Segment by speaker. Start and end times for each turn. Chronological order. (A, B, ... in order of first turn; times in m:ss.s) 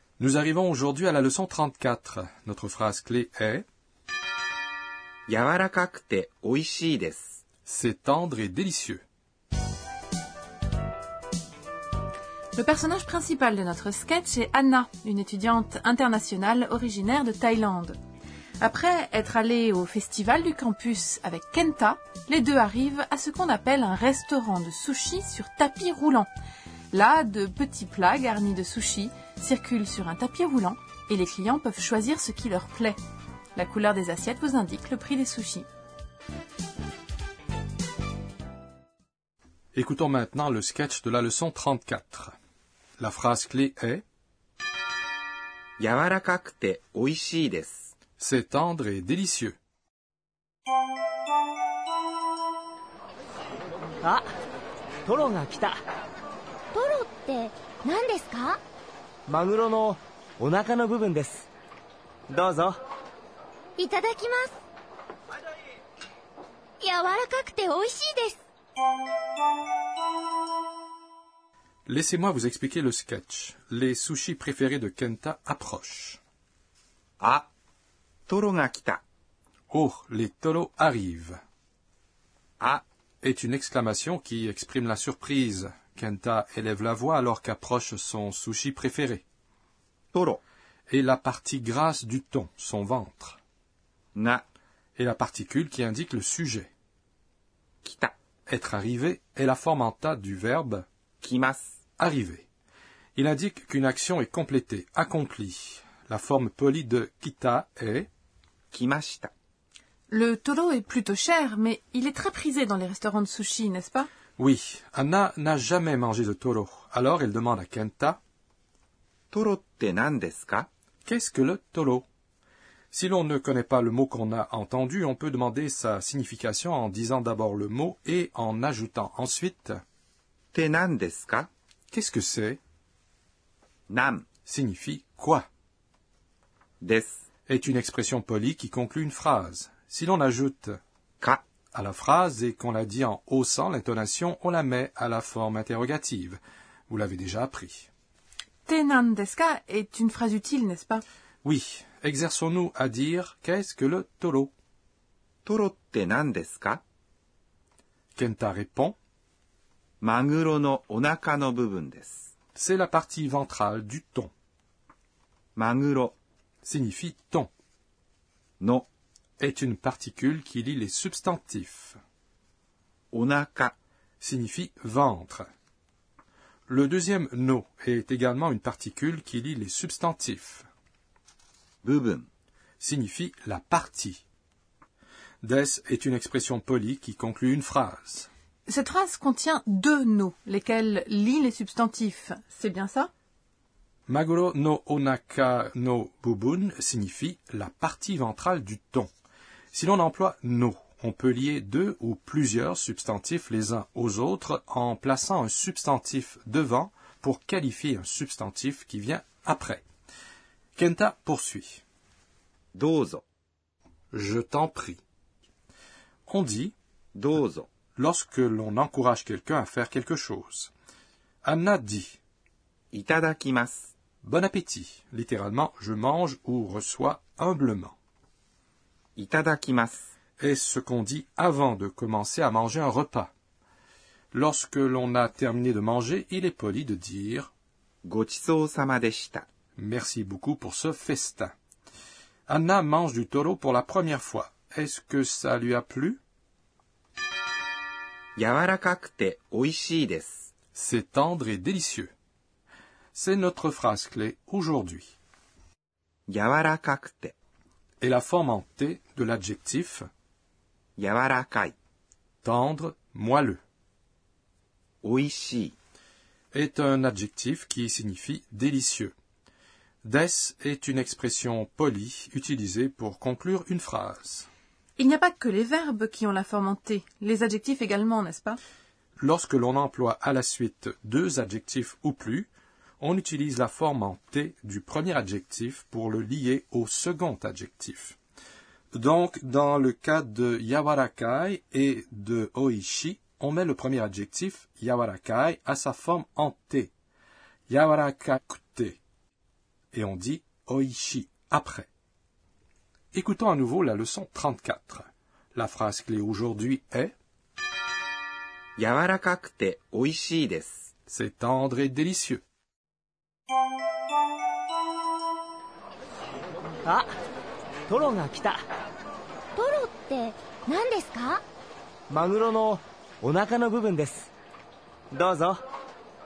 0:00.2-0:03.6 A
0:05.3-0:07.4 B
0:07.7-0:09.0 A
0:12.6-0:18.0 C
0:18.6-0:26.3 C
0:26.9-0:33.0 C
0:33.6-0:35.6 C
0:39.7-0:42.3 A
0:43.0-0:44.0 A
0:45.8-0:47.9 B
0:48.2-0:49.6 A
0:54.0-0:54.3 D
0:55.0-0:55.8 D
0:56.7-0:58.6 E
0:59.3-1:01.5 D
1:02.3-1:02.8 D
1:03.8-1:04.6 E
1:06.8-1:08.4 E
1:11.9-1:16.2 A
1:17.2-1:17.5 B
1:18.3-1:19.0 B
1:19.7-1:21.4 A
1:23.2-1:29.2 A
1:30.1-1:30.4 B
1:30.9-1:33.4 A
1:34.1-1:34.4 B
1:35.0-1:36.7 A
1:37.8-1:38.1 B
1:38.5-1:40.9 A
1:41.2-1:41.8 B
1:42.0-1:42.4 A
1:43.2-1:48.1 A
1:48.7-1:49.3 B
1:50.1-1:54.1 C
1:54.4-1:58.2 A
1:59.3-2:00.7 B
2:01.0-2:02.0 A
2:02.9-2:09.8 A
2:10.5-2:11.5 B
2:11.9-2:12.6 A
2:13.9-2:14.3 B
2:14.4-2:15.5 A
2:16.8-2:17.2 B
2:17.5-2:20.8 A
2:21.7-2:27.9 A
2:28.7-2:31.0 C
2:31.4-2:34.5 A
2:35.4-2:36.8 B
2:38.2-2:39.0 A
2:40.0-2:42.3 B
2:42.6-2:44.3 A
2:45.6-2:46.2 B
2:46.6-2:47.5 A
2:48.6-2:48.9 B
2:49.4-2:52.0 A
2:53.1-2:53.7 B
2:54.2-2:55.5 A
2:56.7-3:00.7 A
3:01.8-3:02.3 B
3:02.8-3:04.2 A
3:05.4-3:08.3 A
3:08.7-3:13.1 C
3:14.1-3:19.1 A
3:19.7-3:29.8 A
3:30.8-3:31.8 A
3:32.8-3:33.2 B
3:34.1-3:35.0 A
3:36.3-3:36.7 A
3:37.2-3:37.7 B
3:38.0-3:40.7 A
3:41.4-3:42.2 A
3:42.9-3:43.9 B
3:44.2-3:48.0 A
3:49.2-3:50.1 B
3:50.4-3:53.3 A
3:54.3-3:57.5 A
3:58.0-3:59.4 B
3:59.8-4:01.5 A
4:02.5-4:06.2 A
4:08.4-4:10.5 B
4:10.7-4:12.1 A
4:13.2-4:15.1 A
4:16.3-4:17.3 B
4:18.0-4:20.1 A
4:21.0-4:21.8 B
4:22.4-4:23.6 A
4:25.0-4:25.8 B
4:26.5-4:29.1 A
4:30.0-4:34.5 A
4:35.0-4:38.6 C
4:39.2-4:42.5 A
4:43.0-4:48.2 A
4:48.9-4:56.9 A
4:57.7-4:59.0 A
4:59.9-5:01.9 A
5:03.1-5:07.1 A
5:08.8-5:10.9 B
5:11.1-5:12.4 A
5:17.9-5:18.6 D
5:19.6-5:21.4 E
5:22.1-5:24.3 D
5:25.1-5:25.6 D